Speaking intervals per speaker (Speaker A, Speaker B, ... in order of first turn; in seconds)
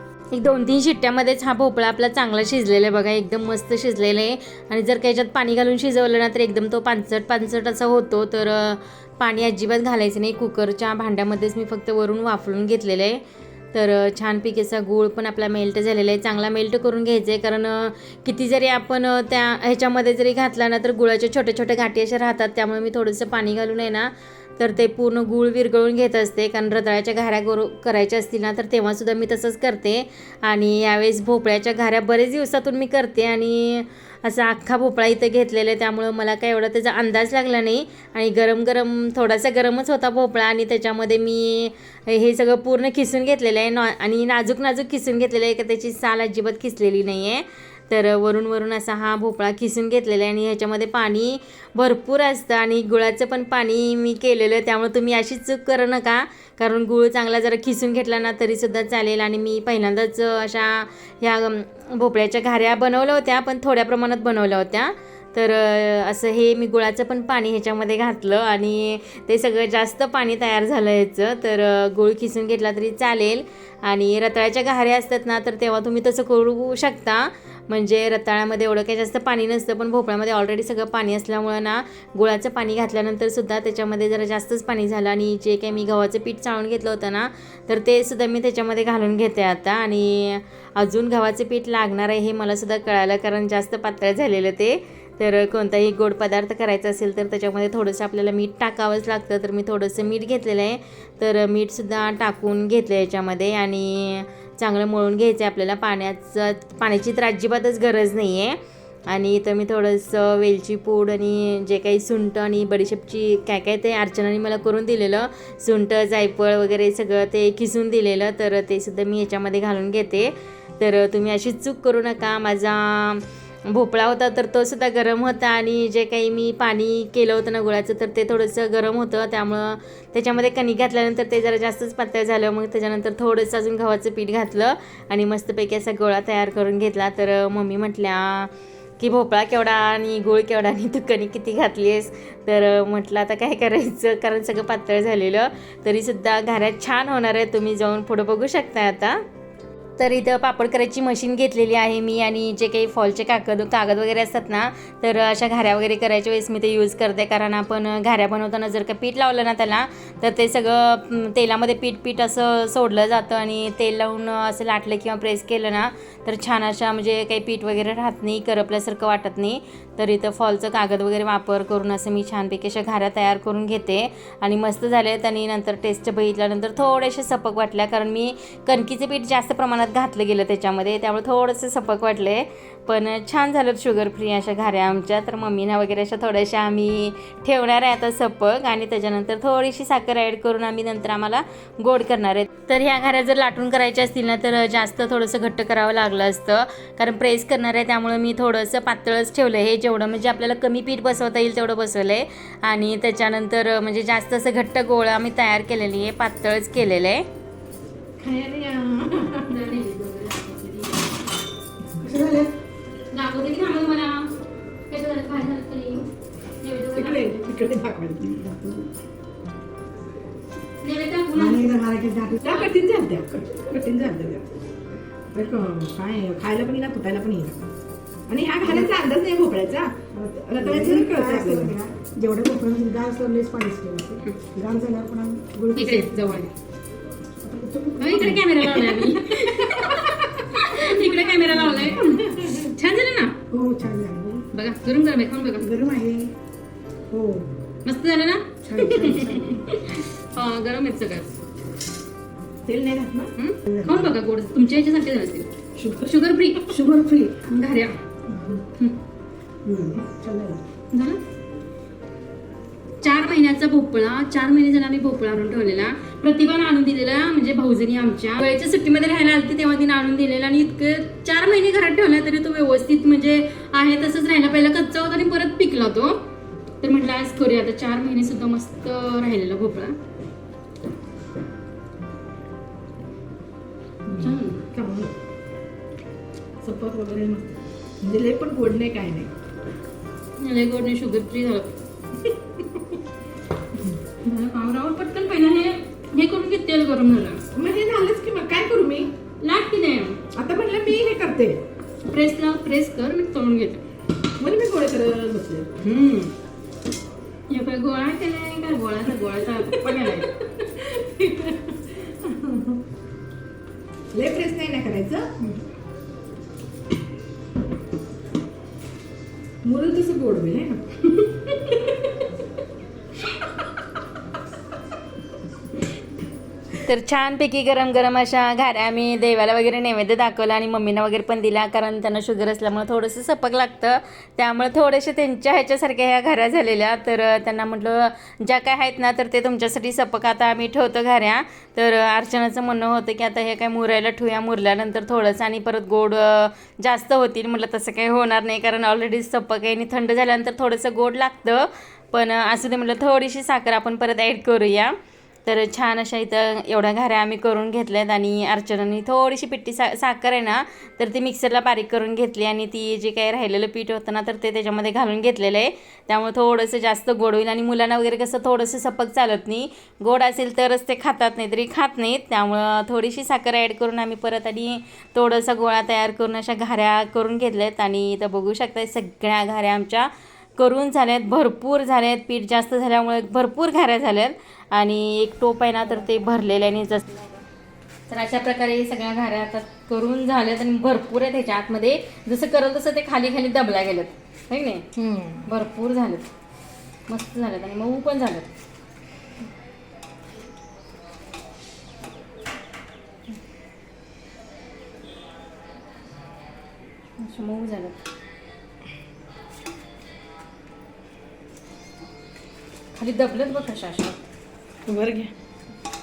Speaker A: 0.3-13.2, 13.7-108.6, 109.1-149.2, 150.0-207.3, 209.4-211.2, 213.1-214.3, 214.9-216.1, 216.6-217.6, 220.8-221.8, 222.4-222.7, 235.8-236.5, 238.0-243.4, 244.5-245.7, 247.8-251.3, 253.4-255.5, 256.0-258.0, 260.9-261.2, 263.0-276.2, 276.8-280.0, 284.2-284.6, 290.4-291.7, 294.2-297.4, 299.4-300.2, 302.1-303.8, 305.8-306.3, 307.5-310.3, 326.8-354.9, 355.5-387.4, 388.1-394.9, 395.4-396.3, 397.1-398.5, 407.2-408.0, 412.9-414.2
Speaker B: 208.2-209.5, 216.9-218.4, 222.4-224.4, 225.3-227.6, 228.3-231.8, 238.2-242.7, 252.7-253.3, 255.8-256.8, 259.7-260.0, 284.1-285.1, 286.6-289.3, 297.5-299.1, 300.3-301.6, 304.4-305.8, 309.6-312.8, 314.1-315.6, 319.6-322.1, 395.0-395.4, 414.9-415.3
Speaker C: 212.0-212.5, 218.4-218.8, 221.3-222.5, 228.6-228.9, 230.1-236.4, 237.4-238.5, 243.5-244.4, 245.6-246.3, 247.1-247.5, 248.6-249.6, 253.7-254.1, 259.7-260.6